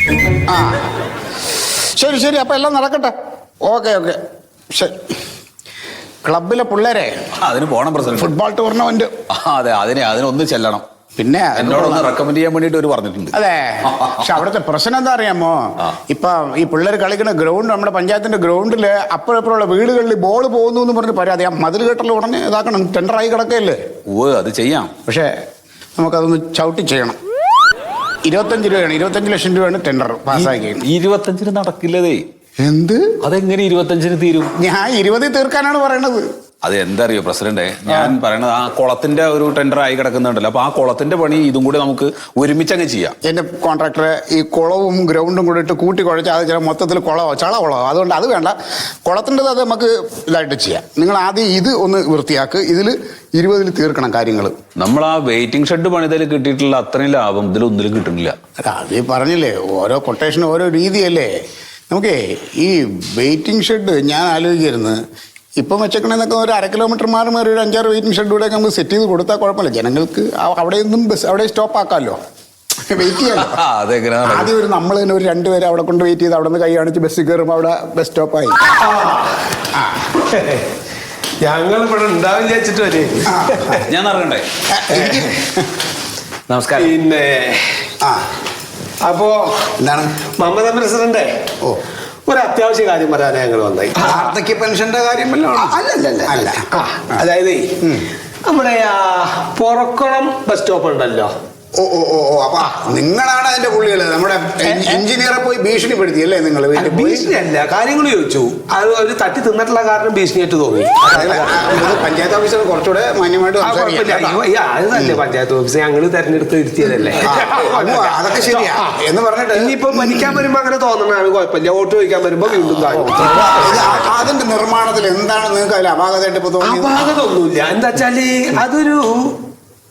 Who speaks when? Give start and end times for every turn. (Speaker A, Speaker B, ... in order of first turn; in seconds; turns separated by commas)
Speaker A: 0.5-0.8, Speaker A: 1.9-3.1, Speaker A: 3.7-4.2, Speaker A: 4.7-5.0, Speaker A: 6.2-7.1, Speaker B: 7.4-8.3, Speaker A: 8.1-9.1, Speaker B: 9.3-10.8, Speaker A: 11.2-12.1, Speaker B: 11.6-13.3, Speaker A: 13.3-23.8, Speaker B: 13.9-14.2, Speaker B: 24.1-24.9, Speaker A: 25.1-25.3, Speaker A: 26.0-27.2, Speaker A: 28.2-30.9, Speaker B: 30.3-32.2, Speaker A: 32.6-33.1, Speaker B: 33.2-34.5, Speaker A: 34.6-36.2, Speaker B: 36.6-43.1, Speaker A: 43.2-48.5, Speaker A: 49.0-54.5, Speaker B: 54.8-58.4, Speaker A: 58.6-61.3, Speaker A: 61.9-65.0, Speaker A: 65.6-72.2, Speaker A: 72.9-73.6, Speaker B: 73.3-74.5, Speaker A: 74.2-78.8, Speaker C: 78.8-79.5, Speaker A: 79.7-80.1, Speaker C: 80.2-80.7, Speaker C: 81.4-83.8, Speaker A: 83.2-83.8, Speaker B: 83.8-84.4, Speaker A: 84.7-85.7, Speaker C: 85.0-85.3, Speaker B: 86.5-86.8, Speaker C: 86.8-87.8, Speaker C: 89.0-89.7, Speaker A: 89.8-90.1, Speaker C: 90.4-91.3, Speaker C: 92.3-94.3, Speaker A: 94.0-97.2, Speaker C: 95.5-97.8, Speaker C: 98.5-101.3, Speaker A: 101.8-107.2, Speaker C: 104.6-105.0, Speaker C: 106.8-111.9, Speaker A: 111.1-114.4, Speaker C: 113.6-119.0, Speaker A: 114.9-115.2, Speaker A: 117.2-120.3, Speaker C: 119.5-124.1, Speaker A: 122.9-127.0, Speaker C: 126.6-129.4